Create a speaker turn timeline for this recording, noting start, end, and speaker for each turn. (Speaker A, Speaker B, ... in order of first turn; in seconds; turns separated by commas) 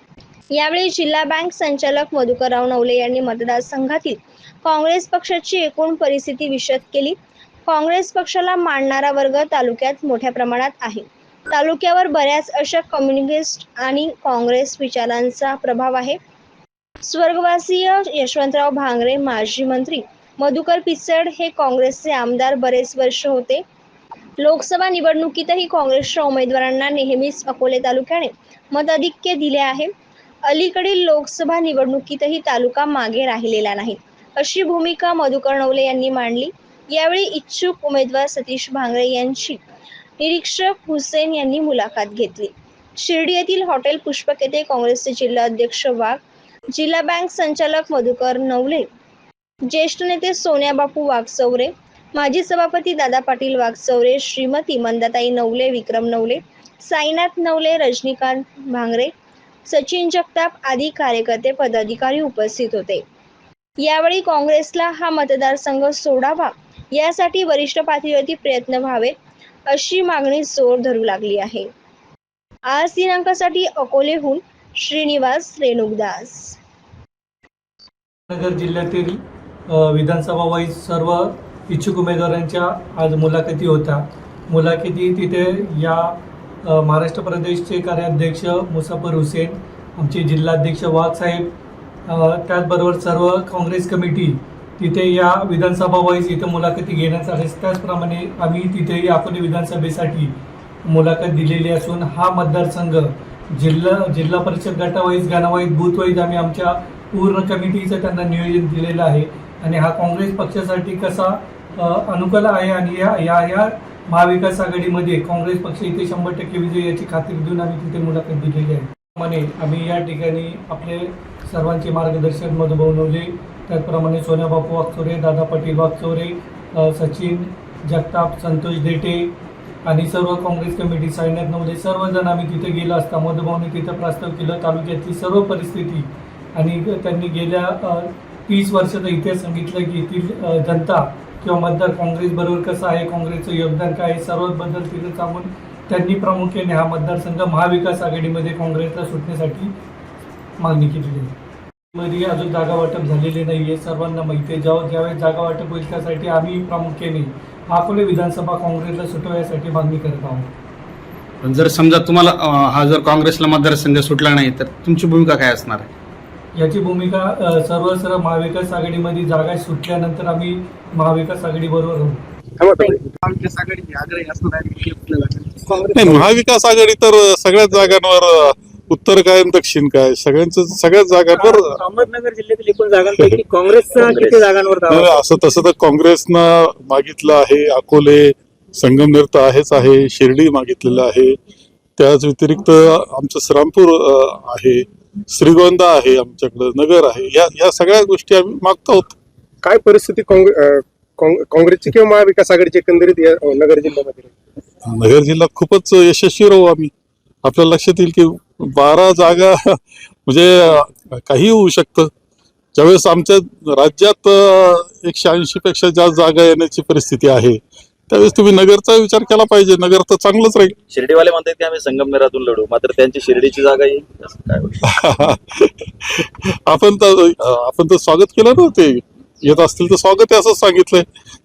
Speaker A: 0.5-7.2, Speaker A: 7.7-16.2, Speaker A: 17.0-23.6, Speaker A: 24.4-29.9, Speaker A: 30.5-39.5, Speaker A: 40.2-46.2, Speaker A: 46.8-48.8, Speaker A: 49.7-59.1, Speaker A: 59.7-63.0, Speaker A: 63.8-69.1, Speaker A: 69.7-71.6, Speaker A: 72.7-76.5, Speaker B: 78.3-86.1, Speaker B: 86.6-91.5, Speaker B: 92.1-100.3, Speaker B: 100.9-129.3, Speaker B: 129.8-149.7, Speaker B: 150.6-151.3, Speaker B: 151.9-160.5, Speaker C: 161.4-165.9, Speaker B: 166.5-172.2, Speaker D: 172.6-176.1, Speaker E: 175.9-181.8, Speaker F: 181.4-185.3, Speaker E: 184.8-191.3, Speaker E: 192.0-199.1, Speaker D: 199.6-204.3, Speaker E: 204.8-206.9, Speaker E: 207.4-212.1, Speaker E: 212.8-220.7, Speaker G: 220.9-224.8, Speaker E: 224.9-231.1